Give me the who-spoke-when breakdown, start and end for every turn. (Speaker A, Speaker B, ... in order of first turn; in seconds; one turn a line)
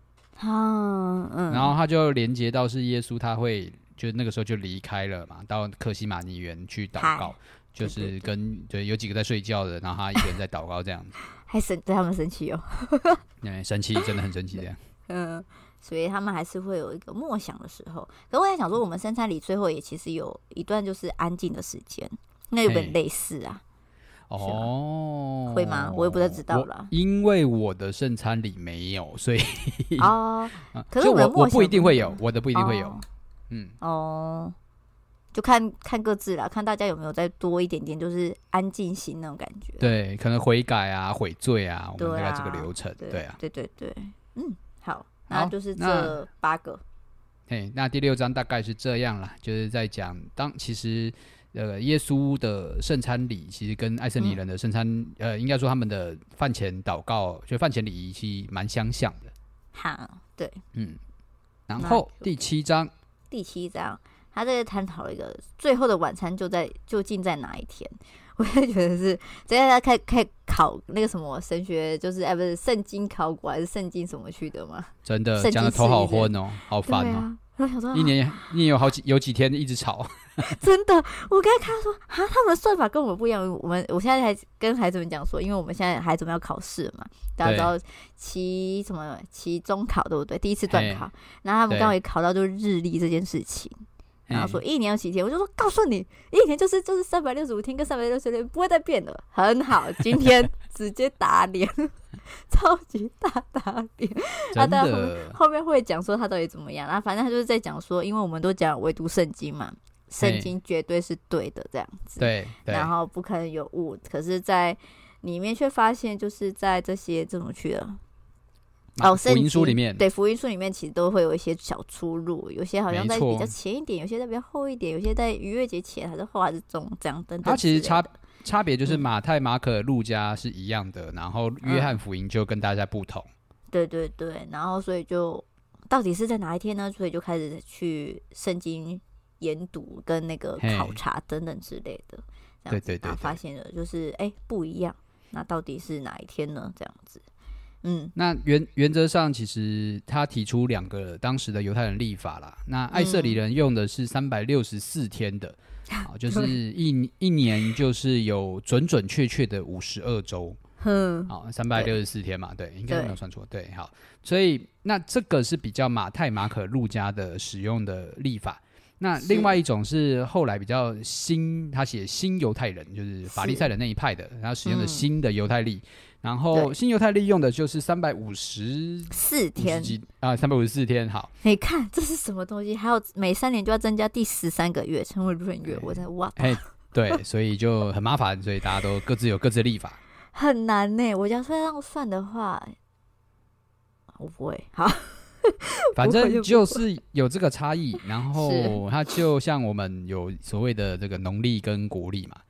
Speaker A: 0.4-1.7
Speaker B: 1.5-11.1
Speaker A: 7.0-8.3
Speaker A: 11.5-13.2
Speaker B: 13.4-14.8
Speaker A: 15.1-23.6
Speaker B: 22.6-22.9
Speaker B: 24.3-30.1
Speaker A: 24.4-24.7
Speaker A: 25.5-26.9
Speaker A: 30.0-33.0
Speaker B: 30.7-33.7
Speaker A: 33.8-34.5
Speaker A: 35.3-39.9
Speaker B: 39.8-43.4
Speaker A: 42.0-46.8
Speaker B: 45.3-46.2
Speaker B: 47.5-59.3
Speaker A: 59.7-60.6
Speaker B: 61.7-62.9
Speaker A: 61.8-62.2
Speaker A: 63.3-76.3
Speaker B: 75.0-77.2
Speaker A: 76.8-78.4
Speaker B: 77.9-80.5
Speaker A: 80.4-118.0
Speaker B: 87.4-87.7
Speaker B: 90.7-91.0
Speaker B: 91.7-91.9
Speaker B: 94.3-94.6
Speaker B: 104.5-105.4
Speaker B: 110.2-110.5
Speaker B: 112.2-112.9
Speaker B: 119.0-120.0
Speaker A: 119.0-128.1
Speaker B: 122.9-123.5
Speaker B: 127.4-133.3
Speaker A: 131.6-131.9
Speaker A: 133.7-147.2
Speaker B: 140.6-141.0
Speaker B: 142.7-143.4
Speaker A: 147.8-148.1
Speaker B: 148.2-160.6
Speaker A: 152.9-153.4
Speaker A: 155.9-156.5
Speaker A: 160.8-161.9
Speaker B: 161.3-181.3
Speaker A: 162.9-163.2
Speaker A: 169.2-169.6
Speaker A: 173.3-173.7
Speaker A: 174.6-175.1
Speaker A: 179.1-180.0
Speaker A: 181.4-186.6
Speaker B: 185.7-190.0
Speaker A: 190.3-192.7
Speaker A: 194.2-196.8
Speaker B: 195.9-202.4
Speaker A: 198.3-198.8